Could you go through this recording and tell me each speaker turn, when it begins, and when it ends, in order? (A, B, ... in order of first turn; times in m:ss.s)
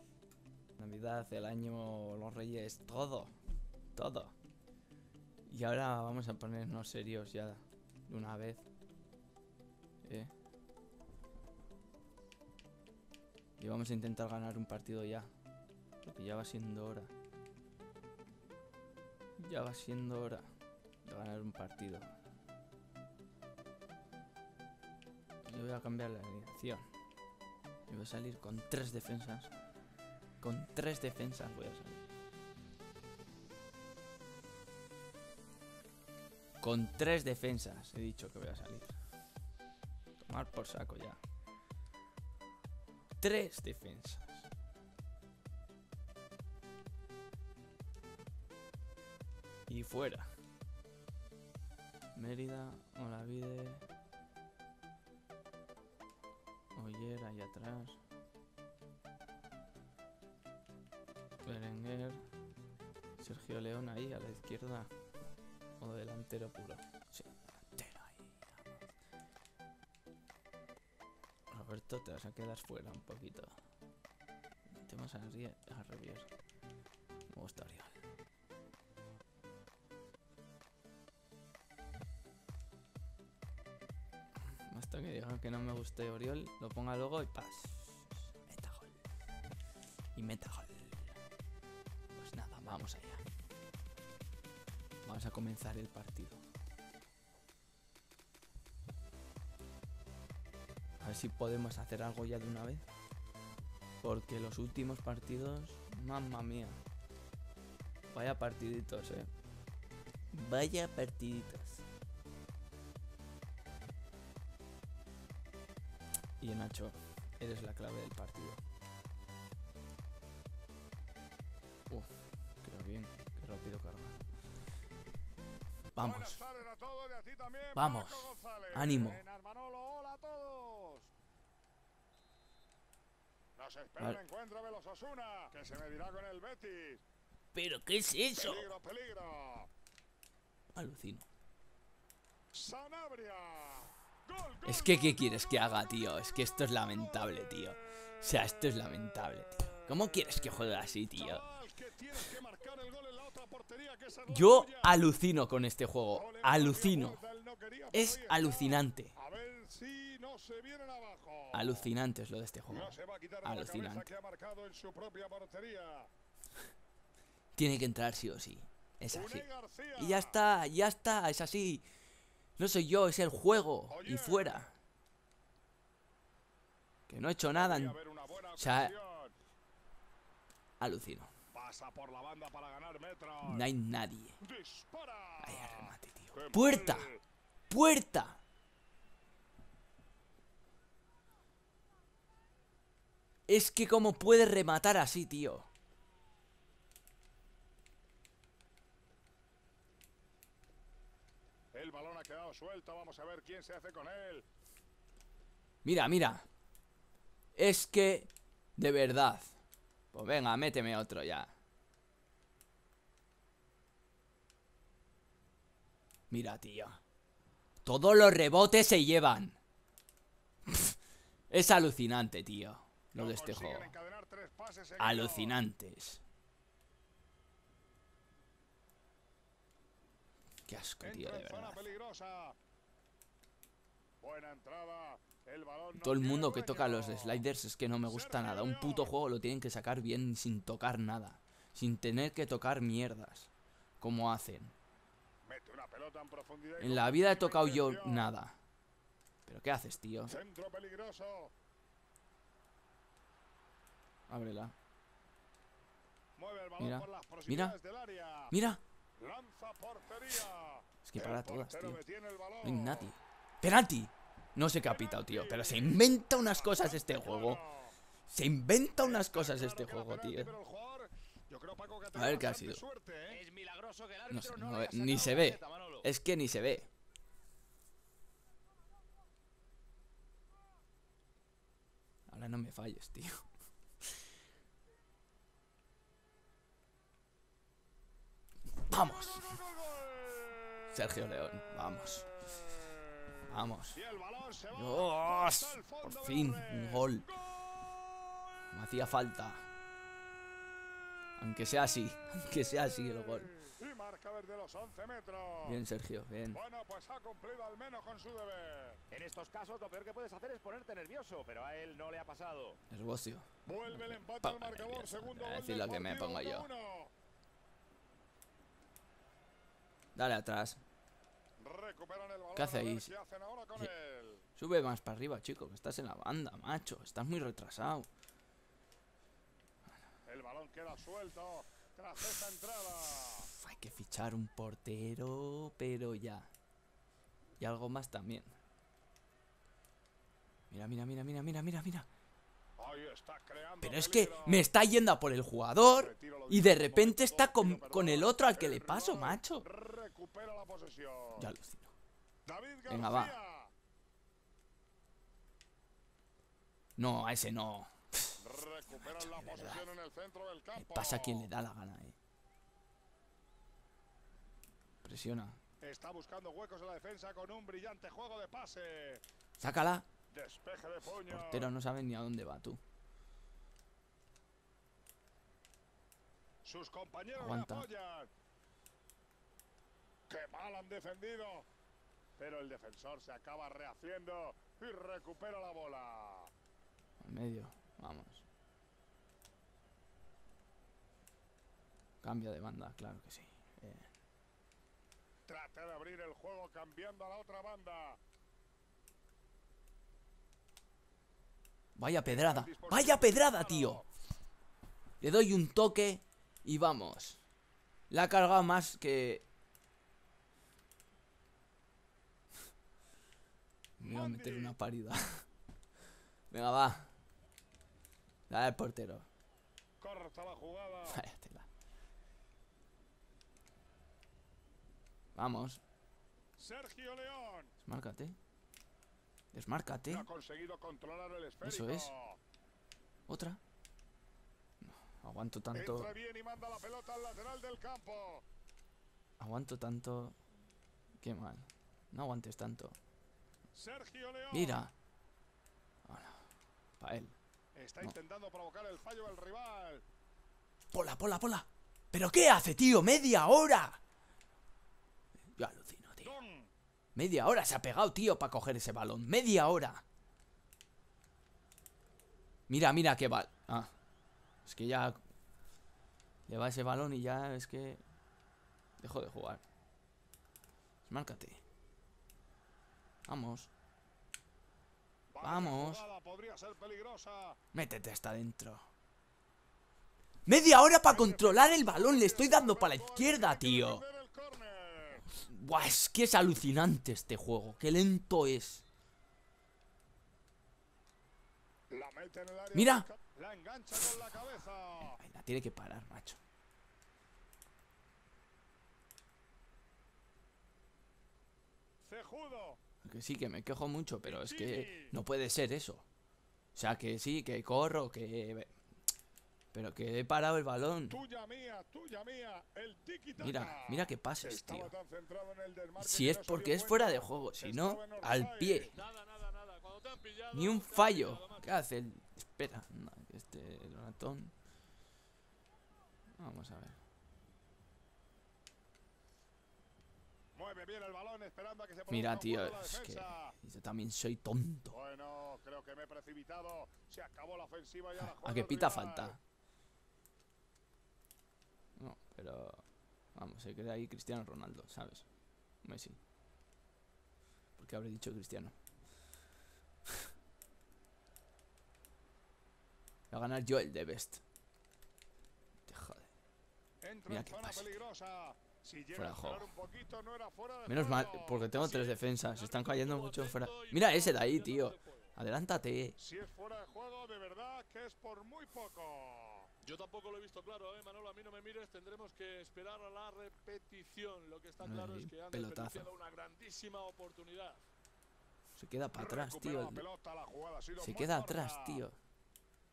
0:00.8-0:03.3 A
0:03.9-0:04.3 A
0:05.4-0:08.6 A
0:10.0-0:10.3 A
0:13.6-0:15.3 A
0:16.0-0:17.1 A
0:19.4-0:20.5 A
0:21.0-0:22.1 A
0:25.4-0:26.9 A
0:27.9-0:29.5 A
0:30.4-0:32.0 A
0:36.6-0:39.0 A
0:40.2-0:41.2 A
0:43.2-0:44.5 A
0:49.7-0:50.3 A
0:52.1-0:53.8 A
0:56.7-0:58.0 A
1:01.4-1:02.2 A
1:03.2-1:04.9 A
1:05.8-1:08.6 A
1:11.5-1:13.6 A
1:14.7-1:16.3 A
1:17.3-1:17.9 A
1:24.7-1:29.0 A
1:30.1-1:31.1 A
1:32.1-1:33.2 A
1:35.0-1:36.4 A
1:41.0-1:42.9 A
1:44.0-1:46.8 A
1:48.1-1:49.3 A
1:50.3-1:51.8 A
1:56.4-1:58.6 A
2:02.6-2:04.2 A
2:05.9-2:06.4 A
2:06.0-2:09.2 B
2:07.8-2:09.2 A
2:09.2-2:11.1 C
2:13.6-2:17.0 B
2:17.5-2:18.7 A
2:18.3-2:19.7 B
2:20.7-2:21.3 A
2:22.5-2:25.8 B
2:24.6-2:31.4 A
2:29.9-2:35.0 B
2:34.3-2:37.2 A
2:36.1-2:41.9 B
2:37.9-2:39.1 A
2:41.5-2:44.0 A
2:42.7-2:46.1 B
2:47.5-2:49.4 A
2:49.1-2:50.4 B
2:50.0-2:51.8 A
2:52.6-2:54.7 A
2:53.9-2:54.7 B
2:57.1-2:58.0 A
2:57.5-2:59.3 B
2:58.6-2:58.9 A
3:00.8-3:01.3 A
3:01.5-3:03.7 B
3:03.4-3:04.4 A
3:04.4-3:07.2 B
3:05.4-3:07.1 A
3:07.7-3:08.4 A
3:13.5-3:15.7 A
3:21.7-3:24.4 B
3:25.8-3:26.4 A
3:27.5-3:29.6 A
3:30.1-3:31.5 A
3:36.3-3:37.0 A
3:37.8-3:39.6 A
3:40.7-3:41.0 A
3:41.5-3:43.9 A
3:43.1-3:45.6 B
3:45.0-3:46.2 A
3:50.7-3:51.9 A
3:51.0-3:52.6 B
3:54.2-3:57.4 B
3:55.9-4:04.7 A
3:58.0-3:59.1 B
4:05.4-4:08.3 B
4:06.8-4:08.6 A
4:09.4-4:10.3 A
4:10.3-4:11.5 B
4:14.3-4:14.7 A
4:16.4-4:18.5 B
4:16.8-4:17.7 A
4:18.5-4:18.8 A
4:19.2-4:23.1 B
4:21.0-4:22.0 A
4:22.6-4:27.6 A
4:24.8-4:27.9 B
4:28.3-4:30.5 A
4:29.0-4:33.4 B
4:32.1-4:32.8 A
4:33.3-4:36.0 C
4:34.3-4:36.9 A
4:42.3-4:43.4 A
4:48.8-4:49.5 A
4:49.0-4:50.6 B
4:50.9-4:52.3 A
4:53.5-4:54.0 A
4:53.9-4:57.4 B
4:54.7-4:57.3 A
4:58.7-4:59.6 A
5:01.4-5:03.6 A
5:02.9-5:05.8 B
5:05.6-5:06.6 A
5:06.5-5:09.0 B
5:09.1-5:12.8 C
5:12.9-5:16.6 A
5:13.6-5:17.1 B
5:20.1-5:20.8 A
5:21.6-5:24.4 B
5:22.6-5:23.1 A
5:24.6-5:28.1 A
5:30.2-5:33.5 B
5:33.6-5:36.5 A
5:37.6-5:38.5 A
5:40.7-5:42.1 A
5:42.8-5:44.6 B
5:43.8-5:49.6 A
5:46.0-5:51.5 B
5:51.4-5:51.9 A
5:52.4-5:53.7 B
5:52.9-5:53.4 A
5:57.0-5:58.4 A
5:58.4-6:01.5 B
5:59.0-5:59.9 A
6:00.8-6:02.2 A
6:05.0-6:05.6 A
6:05.8-6:09.2 B
6:09.6-6:10.1 A
6:10.3-6:11.7 B
6:11.2-6:12.8 A
6:16.6-6:18.3 B
6:17.4-6:17.8 A
6:20.3-6:21.7 B
6:22.4-6:26.5 B
6:27.2-6:28.4 A
6:32.2-6:34.1 A
6:35.5-6:38.2 B
6:41.9-6:44.0 A
6:42.2-6:44.1 B
6:45.2-6:47.4 A
6:48.1-6:49.4 A
6:54.0-6:55.4 A
6:54.0-6:54.7 B
6:56.5-6:57.1 A
6:58.5-6:59.3 A
7:00.0-7:01.2 B
7:01.1-7:01.7 A
7:05.3-7:05.8 A
7:06.6-7:07.7 B
7:07.8-7:08.4 A
7:09.5-7:10.2 A
7:10.0-7:12.4 B
7:11.6-7:12.1 A
7:13.3-7:13.6 A
7:14.8-7:16.1 A
7:15.7-7:18.4 B
7:19.4-7:20.4 A
7:21.2-7:23.0 A
7:23.7-7:24.8 B
7:24.5-7:24.9 A
7:26.0-7:26.5 A
7:27.0-7:27.4 A
7:27.7-7:30.0 B
7:30.9-7:34.0 A
7:35.5-7:36.3 A
7:36.2-7:36.7 B
7:37.1-7:40.0 A
7:42.7-7:43.9 A
7:44.6-7:45.2 A
7:46.5-7:48.0 A
7:49.0-7:49.6 A
7:51.0-7:51.6 A
7:53.2-7:53.7 A
7:55.3-7:57.6 B
7:55.4-7:56.0 A
7:57.7-7:58.9 A
8:00.4-8:04.0 A
8:01.0-8:05.2 B
8:05.4-8:08.8 A
8:11.9-8:15.2 B
8:12.7-8:13.1 A
8:15.2-8:16.4 A
8:22.0-8:22.8 B
8:23.0-8:26.0 A
8:24.2-8:25.1 B
8:26.7-8:28.7 A
8:29.7-8:31.2 A
8:31.1-8:38.9 B
8:33.4-8:34.9 A
8:36.0-8:38.9 A
8:38.9-8:41.7 D
8:40.5-8:44.5 A
8:46.4-8:47.0 A
8:50.5-8:53.5 B
8:52.1-8:54.9 A
8:54.9-8:59.4 B
8:58.2-8:59.4 A
9:02.0-9:02.8 A
9:03.3-9:05.2 A
9:05.8-9:06.2 A
9:07.8-9:08.7 A
9:13.3-9:14.4 A
9:15.9-9:16.3 A
9:17.0-9:22.2 B
9:17.3-9:17.9 A
9:19.1-9:19.7 A
9:20.9-9:26.2 A
9:22.4-9:25.3 D
9:26.2-9:29.7 B
9:29.8-9:37.8 D
9:34.8-9:36.1 A
9:38.7-9:40.0 A
9:39.2-9:42.0 B
9:41.0-9:42.2 A